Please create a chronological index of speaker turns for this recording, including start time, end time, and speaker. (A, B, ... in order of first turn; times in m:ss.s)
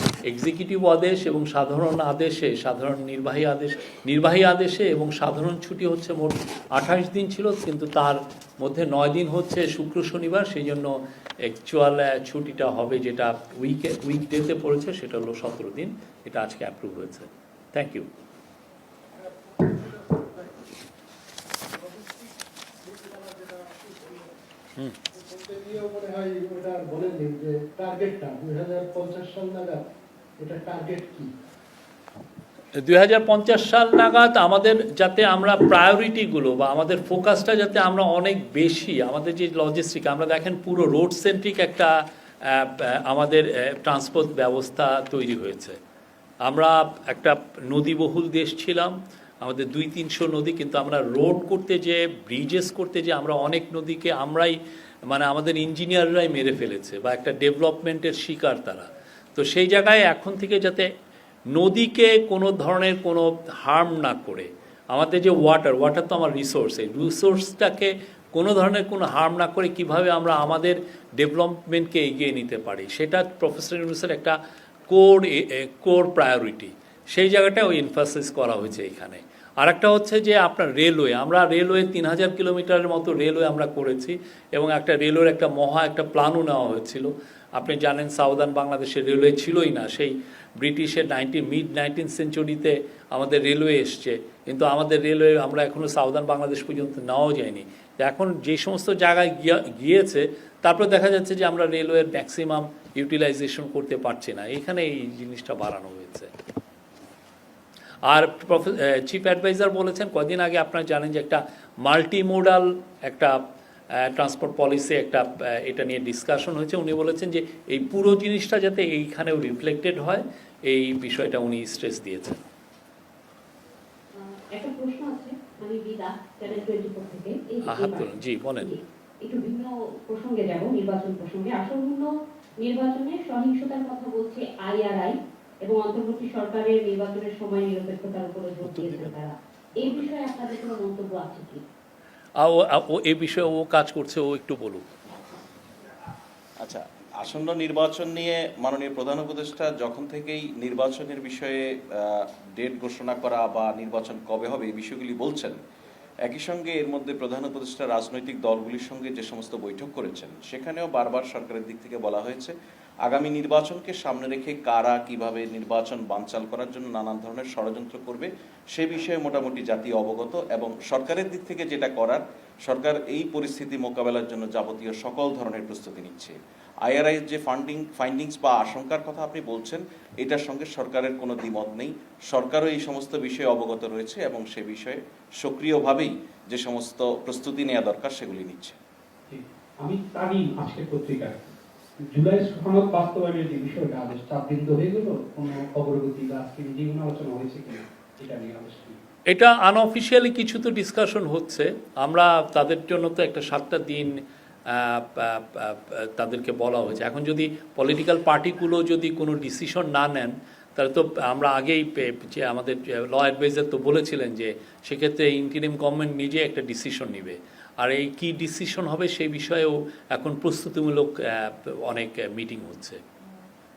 0:00.2-0:18.1 A
0:19.1-0:20.6 B
0:21.8-0:24.4 B
0:25.1-0:29.9 B
0:30.4-0:31.3 B
0:32.8-0:45.8 A
0:46.4-1:00.9 A
1:01.5-1:14.4 A
1:14.9-1:46.3 A
1:48.1-1:53.4 A
1:54.0-2:02.4 A
2:04.2-2:12.1 C
2:07.6-2:08.7 A
2:12.6-2:21.6 C
2:22.4-2:24.9 A
2:26.6-2:35.6 D
2:36.2-3:08.8 D
3:09.3-3:11.5 E
3:12.1-3:19.0 E
3:19.3-3:24.2 A
3:24.7-3:43.0 A